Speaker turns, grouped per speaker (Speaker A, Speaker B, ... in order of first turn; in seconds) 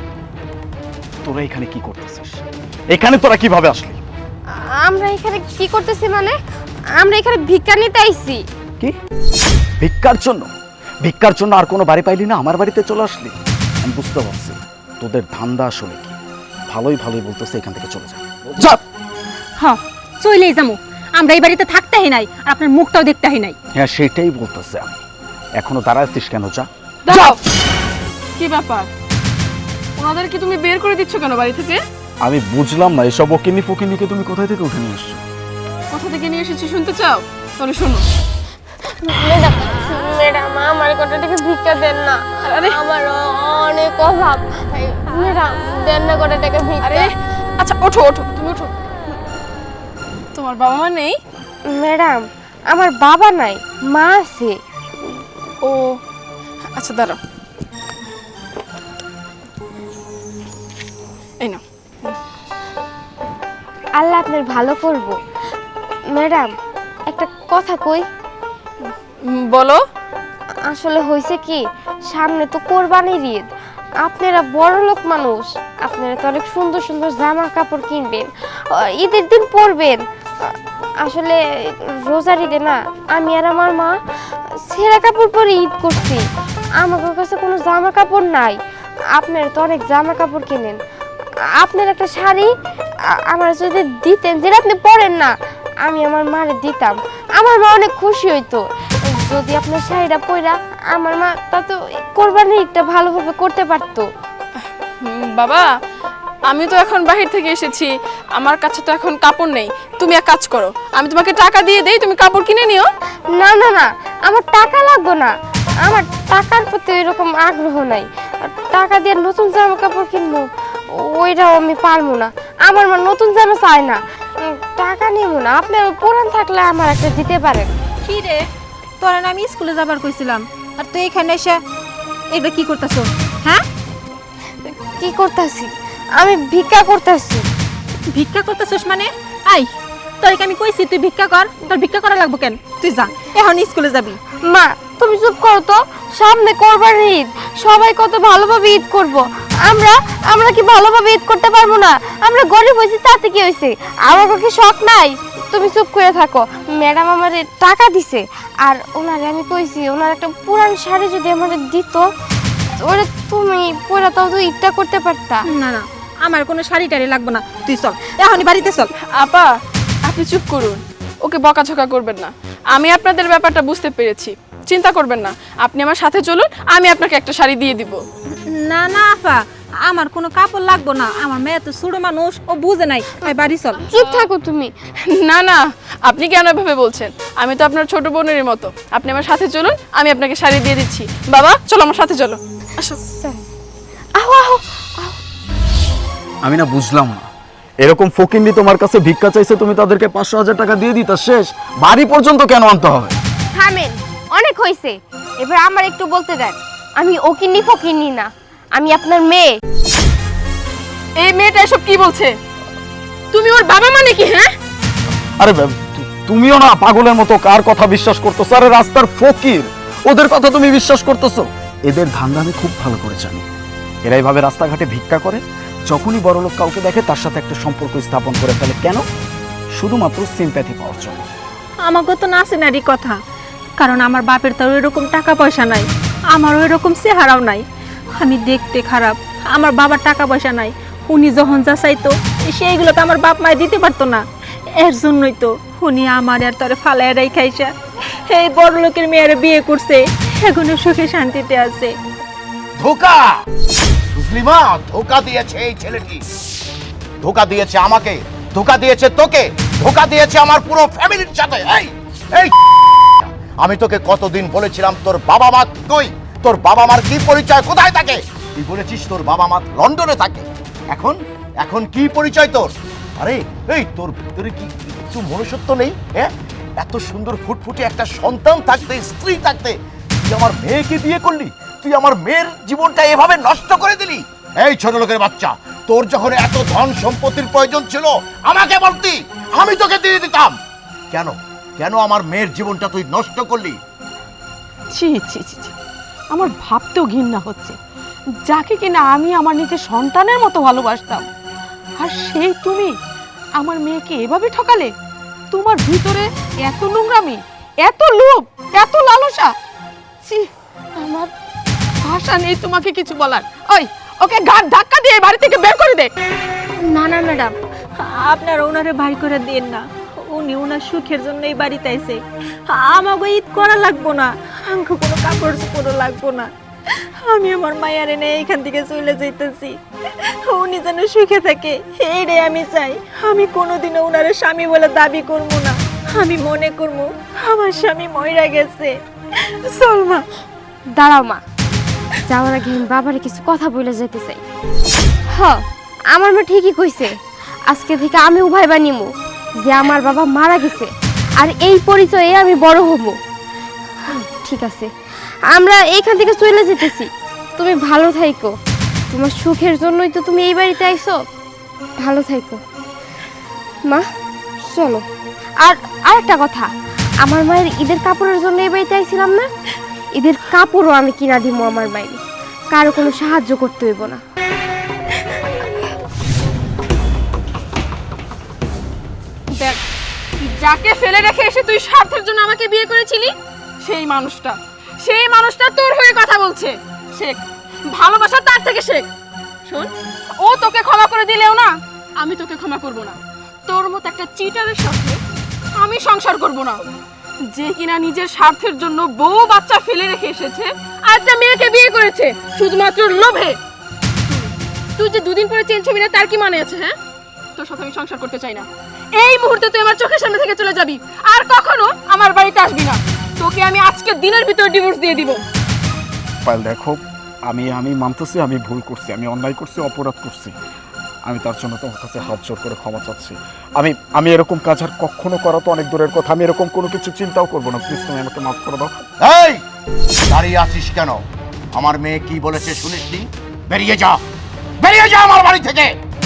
Speaker A: 1.2-4.0, 9.8-10.5, 11.0-16.2, 16.7-18.8, 23.8-25.0, 25.6-27.3, 32.2-35.2, 196.4-197.3, 197.8-203.2, 215.4-223.5, 224.0-229.1, 229.8-231.3, 416.4-420.6, 421.3-429.0
Speaker B: 4.6-6.4, 7.0-8.4, 39.0-47.1, 51.7-54.5, 64.0-65.2, 66.1-66.5, 67.1-68.0, 70.7-73.5, 74.0-84.0, 84.7-86.2, 86.8-88.6, 89.1-90.8, 91.6-92.5, 93.1-95.3, 95.8-104.1, 113.4-115.3, 115.8-120.5, 121.0-127.7, 134.7-137.5, 144.5-162.1, 162.8-165.4, 183.9-184.7, 193.2-193.5, 194.2-195.2, 203.6-209.5, 340.9-341.4, 342.3-344.4, 345.3-347.2, 347.7-349.1, 349.6-353.2, 354.1-354.9, 355.5-358.5, 359.1-361.2, 362.0-362.6, 364.7-365.0, 365.6-366.7, 367.2-369.5, 370.2-372.2, 372.7-374.2
Speaker C: 19.6-23.6, 128.1-128.4, 129.0-131.6, 132.3-133.6, 138.1-139.7, 140.2-144.2, 165.5-168.9, 178.6-183.8, 231.8-233.2, 233.8-237.6, 238.2-244.2, 244.8-247.8, 248.3-251.9, 316.8-326.5, 327.2-329.8, 330.5-338.9, 339.7-340.3
Speaker D: 27.1-27.4, 28.4-28.9, 30.0-31.8, 35.9-38.0, 42.5-42.8, 46.8-48.8, 50.4-51.2, 55.6-56.0, 56.8-57.2, 61.4-62.1, 69.5-69.8, 104.6-105.7, 106.5-112.9, 169.2-169.5, 170.1-178.0, 183.9-184.3, 185.2-193.0, 211.2-212.3, 213.3-214.5, 379.5-379.8, 380.4-383.3, 383.8-389.1, 389.7-395.2, 395.8-396.8, 397.5-403.6, 404.3-406.9, 407.6-415.4
Speaker E: 252.8-253.3, 254.1-256.2, 257.2-262.5, 263.2-290.6, 291.1-293.8, 429.2-429.6, 430.3-431.2, 431.8-434.2, 434.8-435.9
Speaker F: 294.9-295.7, 296.3-297.8, 298.5-301.3, 302.0-302.9, 303.6-304.9, 305.5-309.5, 310.3-311.3, 312.0-316.1